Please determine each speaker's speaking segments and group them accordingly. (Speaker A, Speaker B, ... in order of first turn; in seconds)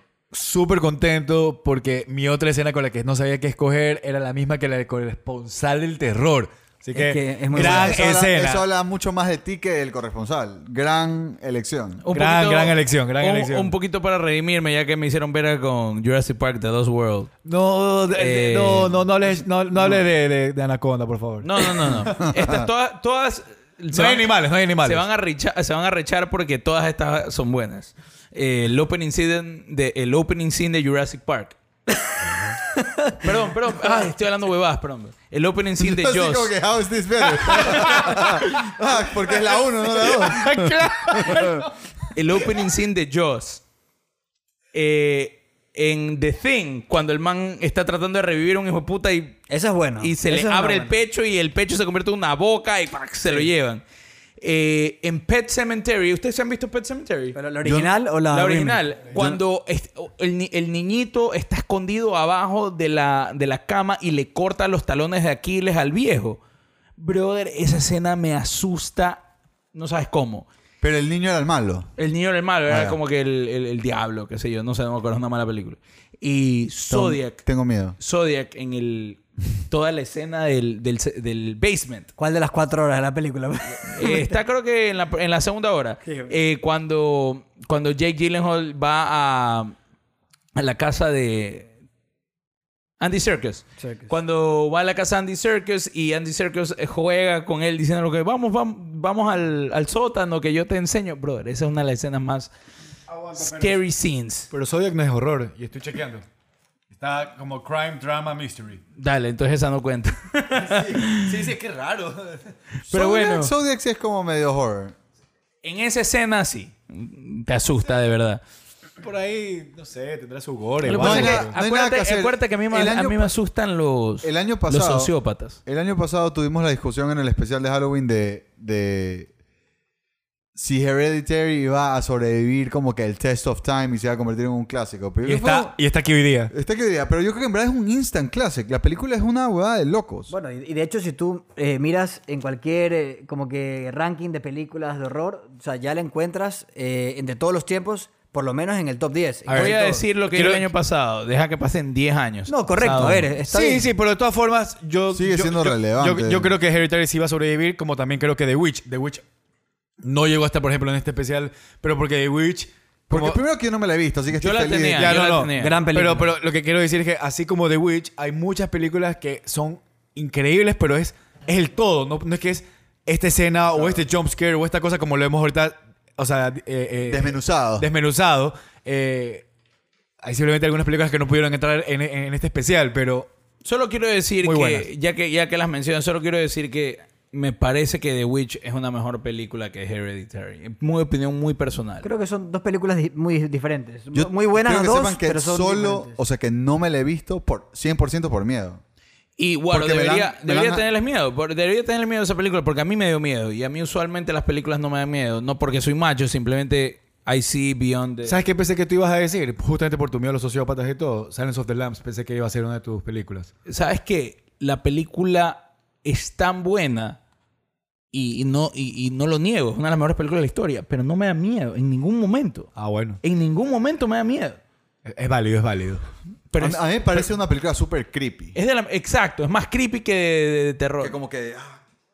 Speaker A: 0.3-8.6, 12.1-13.7, 17.4-22.0, 23.9-25.0, 40.1-41.6, 103.1-103.8, 104.5-106.2, 106.9-108.8, 110.6-112.5, 119.0-121.5, 135.2-136.5, 149.5-150.7, 152.8-159.2, 160.0-163.4, 165.0-179.4, 180.2-183.3, 184.4-184.9, 208.2-213.5, 222.8-223.2, 225.1-226.1
Speaker B: 6.9-8.0, 33.0-33.3, 49.5-50.9, 57.3-58.8, 82.2-84.3, 86.0-86.3, 93.8-94.1, 140.3-150.0, 152.5-153.9, 165.6-166.3, 192.0-196.2
Speaker C: 7.5-12.0, 22.1-22.7, 35.8-41.6, 59.1-59.4, 70.8-71.9, 72.7-73.0, 76.9-78.0, 112.9-115.0, 120.9-123.3, 124.2-125.1, 125.7-129.3, 130.5-135.7, 136.5-140.3, 155.1-156.5, 163.1-165.1, 177.1-177.9, 194.1-198.8, 199.7-200.8, 226.6-228.5, 231.0-231.8
Speaker D: 12.0-17.3, 18.1-20.0, 21.4-24.3, 24.8-31.6, 33.2-36.5, 37.6-38.3, 42.1-43.6, 44.7-49.4, 50.0-53.8, 54.4-66.4, 67.0-70.5, 72.0-77.5, 78.0-82.1, 83.9-89.7, 90.5-91.7, 93.0-102.5, 103.4-104.5, 109.0-111.4, 112.8-113.5, 115.6-118.4, 120.8-125.6, 149.5-152.5, 164.4-165.8, 183.6-192.1, 199.4-208.4, 213.7-217.2, 218.1-224.6, 226.5-226.8, 228.5-231.2